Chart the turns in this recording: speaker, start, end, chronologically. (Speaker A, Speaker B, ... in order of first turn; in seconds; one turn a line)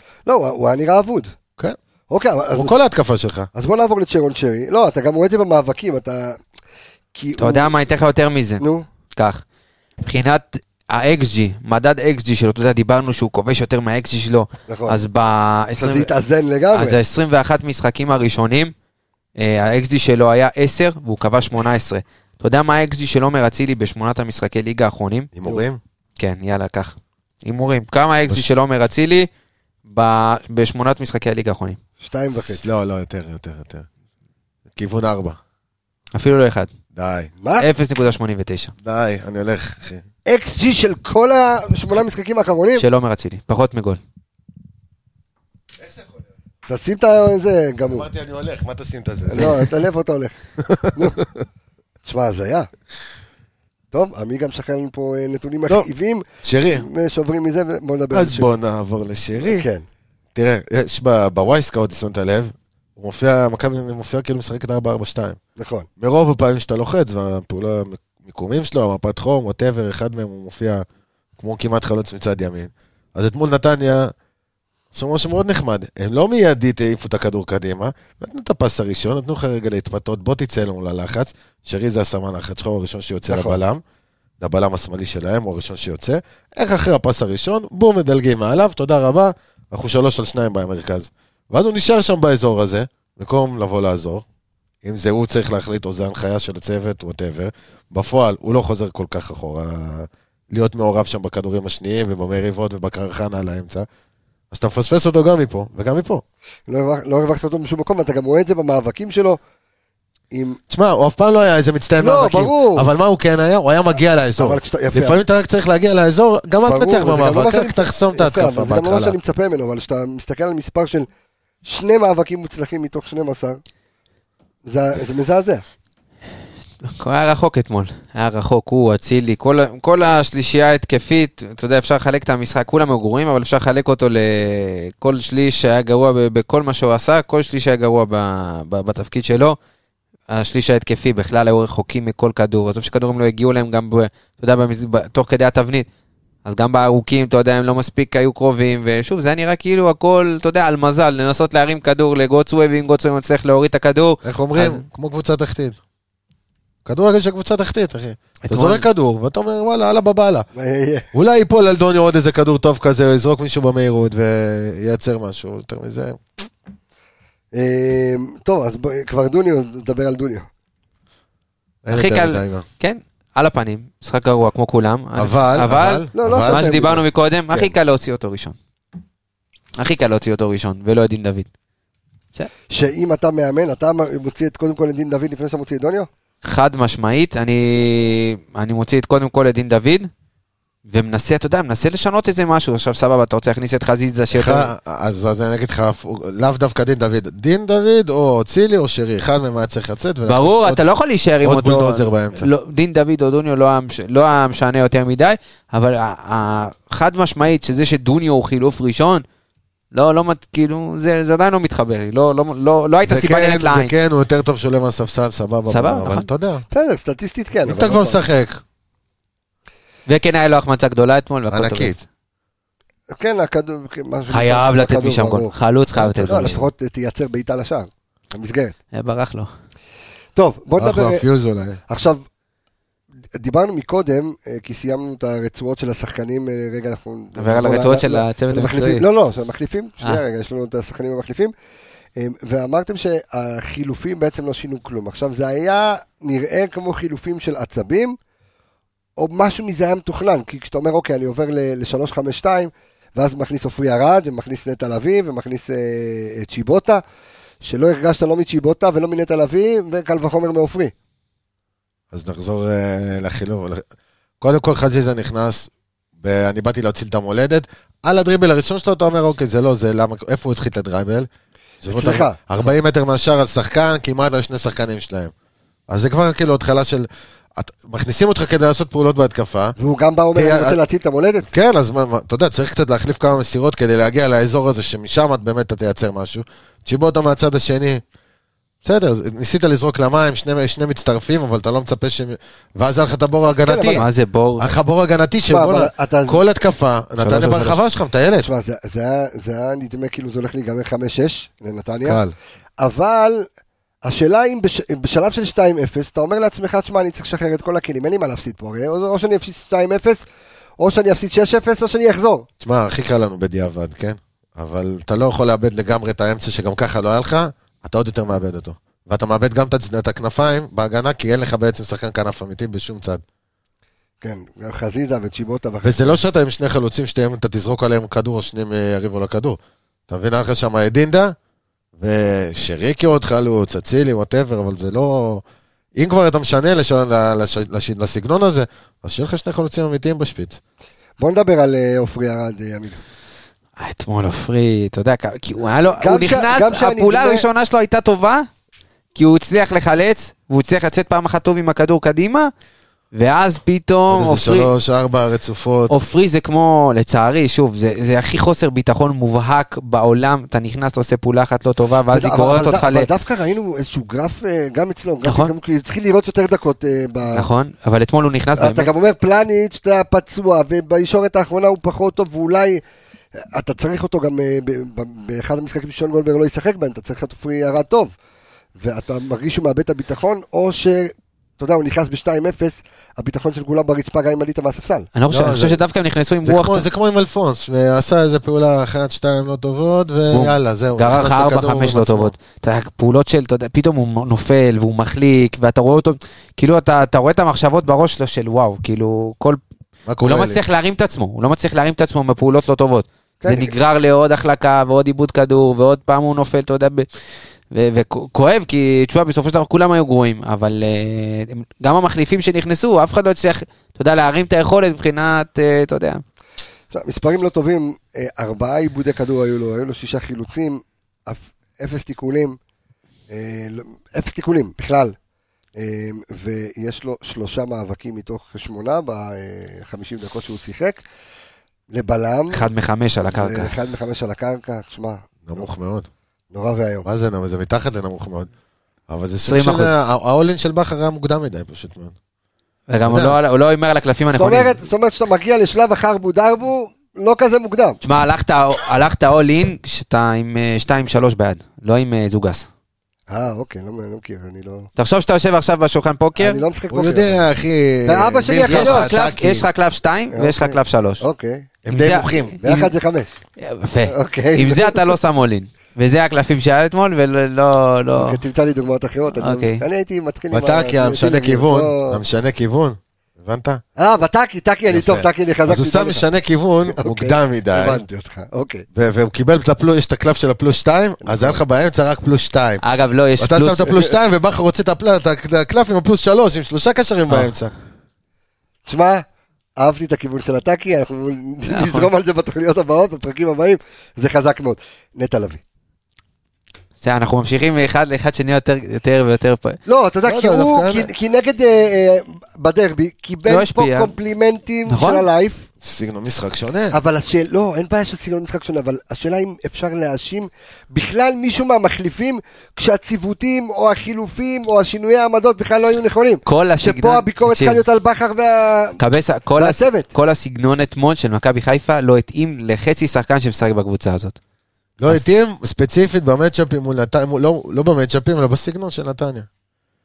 Speaker A: 0.2-1.3
Speaker A: 2.1-2.7
Speaker B: 2.5-3.5
Speaker A: 3.5-6.4
Speaker A: 7.1-7.8
Speaker C: 7.4-8.6
Speaker A: 8.6-8.8
Speaker C: 9.1-9.4
Speaker C: 10.0-16.1
Speaker A: 14.7-15.0
Speaker A: 15.8-17.0
Speaker C: 16.7-18.7
Speaker C: 19.4-25.3
Speaker B: 25.3-25.8
Speaker C: 26.2-29.3
Speaker C: 29.9-31.8
Speaker A: 32.0-32.6
Speaker B: 32.4-33.9
Speaker B: 34.7-35.4
Speaker C: 36.1-36.7
Speaker B: 36.9-37.3
Speaker A: 37.4-37.7
Speaker C: 37.6-38.7
Speaker B: 38.8-40.0
Speaker A: 40.2-42.8
Speaker C: 42.8-44.0
Speaker A: 46.6-48.1
Speaker B: 47.9-49.7
Speaker A: 49.3-50.4
Speaker B: 50.6-51.3
Speaker A: 50.9-51.2
Speaker A: 52.0-52.7
Speaker A: 53.9-58.5
Speaker B: 56.4-56.9
Speaker B: 58.1-59.7
Speaker A: 59.4-59.8
Speaker B: 60.3-65.4
Speaker A: 65.6-65.9
Speaker B: 66.0-70.8
Speaker B: 71.4-74.1
Speaker B: 74.9-83.8
Speaker A: 83.3-83.6
Speaker B: 84.4-94.2
Speaker B: 94.8-103.9
Speaker B: 104.5-106.2
Speaker A: 106.7-109.4
Speaker A: 110.3-110.6
Speaker B: 110.7-119.2
Speaker A: 112.0-112.9
Speaker A: 114.4-115.2
Speaker A: 116.6-121.1
Speaker A: 121.6-123.6
Speaker A: 124.6-125.6
Speaker C: 126.8-139.6
Speaker C: 140.3-145.9
Speaker C: 146.4-154.8
Speaker B: 154.2-155.8
Speaker B: 156.8-160.5
Speaker C: 158.4-158.8
Speaker A: 160.6-161.1
Speaker B: 161.1-166.2
Speaker A: 167.5-170.5
Speaker B: 171.8-172.6
Speaker C: 171.9-178.6
Speaker B: 175.2-176.8
Speaker A: 176.1-177.7
Speaker C: 179.8-181.5
Speaker A: 182.7-186.1
Speaker C: 186.4-190.1
Speaker C: 190.9-194.7
Speaker B: 194.3-200.8
Speaker C: 200.2-209.2
Speaker B: 201.4-202.5
Speaker C: 209.9-213.9
Speaker B: 213.0-216.6
Speaker C: 215.7-216.3
Speaker A: 216.7-218.2
Speaker B: 217.6-218.6
Speaker C: 220.1-222.0
Speaker B: 221.5-222.0
Speaker A: 223.1-225.5
Speaker C: 224.3-226.6
Speaker B: 225.9-226.7
Speaker A: 226.2-228.8
Speaker C: 228.9-229.5
Speaker A: 230.3-231.2
Speaker B: 230.8-231.8
Speaker A: 231.9-232.2
Speaker A: 233.3-241.5
Speaker C: 237.4-239.0
Speaker A: 242.2-248.2
Speaker A: 249.2-257.0
Speaker A: 257.6-260.9
Speaker B: 262.1-263.8
Speaker B: 264.4-271.3
Speaker B: 271.8-275.3
Speaker A: 271.9-272.4
Speaker B: 275.9-279.7
Speaker A: 279.8-281.5
Speaker B: 280.3-280.8
Speaker B: 281.5-288.0
Speaker B: 288.8-294.1
Speaker A: 293.6-294.0
Speaker C: 293.9-294.7
Speaker B: 294.6-298.5
Speaker A: 295.5-296.4
Speaker C: 297.2-297.8
Speaker A: 298.4-302.2
Speaker B: 302.0-302.3
Speaker A: 302.8-303.5
Speaker A: 304.0-310.2
Speaker A: 310.8-312.5
Speaker B: 312.6-323.2
Speaker A: 324.2-326.2
Speaker B: 325.8-329.6
Speaker B: 330.1-331.4
Speaker B: 332.0-335.4
Speaker B: 335.9-340.6
Speaker A: 341.2-343.0
Speaker C: 343.8-348.5
Speaker A: 345.9-347.4
Speaker C: 349.1-352.5
Speaker C: 353.1-354.7
Speaker B: 354.1-355.9
Speaker C: 355.9-363.1
Speaker A: 362.1-367.5
Speaker C: 365.2-365.5
Speaker C: 367.3-368.9
Speaker A: 368.6-372.8
Speaker A: 373.4-378.1
Speaker A: 378.8-385.1
Speaker C: 385.1-386.9
Speaker B: 385.3-385.8
Speaker B: 386.4-392.3
Speaker C: 390.3-399.6
Speaker B: 400.1-400.6
Speaker C: 400.2-407.1
Speaker A: 403.4-403.7
Speaker C: 407.7-416.2
Speaker A: 416.9-422.6
Speaker A: 423.3-425.1
Speaker A: 425.8-431.0
Speaker A: 431.9-432.7
Speaker C: 432.5-433.7
Speaker A: 433.2-435.6
Speaker B: 435.4-436.1
Speaker A: 436.5-437.1
Speaker B: 437.0-438.5
Speaker B: 439.1-442.1
Speaker C: 439.4-439.9
Speaker C: 442.9-444.8
Speaker B: 443.0-443.4
Speaker A: 444.3-448.0
Speaker C: 448.0-452.7
Speaker A: 453.3-454.9
Speaker C: 455.0-456.6
Speaker A: 456.4-457.4
Speaker B: 456.9-459.7
Speaker A: 458.0-459.1
Speaker C: 458.6-461.2
Speaker A: 460.3-461.7
Speaker B: 461.8-462.6
Speaker C: 461.9-462.9
Speaker A: 462.6-463.4
Speaker C: 463.6-468.4
Speaker A: 464.1-465.1
Speaker A: 468.1-472.2
Speaker C: 469.4-469.8
Speaker B: 470.5-473.8
Speaker A: 474.0-476.3
Speaker B: 474.9-478.0
Speaker A: 476.9-478.9
Speaker B: 478.9-482.8
Speaker A: 481.2-481.6
Speaker C: 482.8-484.0
Speaker B: 483.4-487.7
Speaker A: 488.9-489.2
Speaker A: 489.8-495.6
Speaker C: 491.7-492.1
Speaker C: 497.0-499.8
Speaker A: 499.9-505.7
Speaker B: 500.2-501.1
Speaker C: 503.4-504.1
Speaker C: 504.9-505.2
Speaker B: 505.8-506.9
Speaker A: 506.9-519.0
Speaker C: 516.5-517.8
Speaker C: 519.0-524.4
Speaker A: 519.6-520.1
Speaker B: 525.0-529.5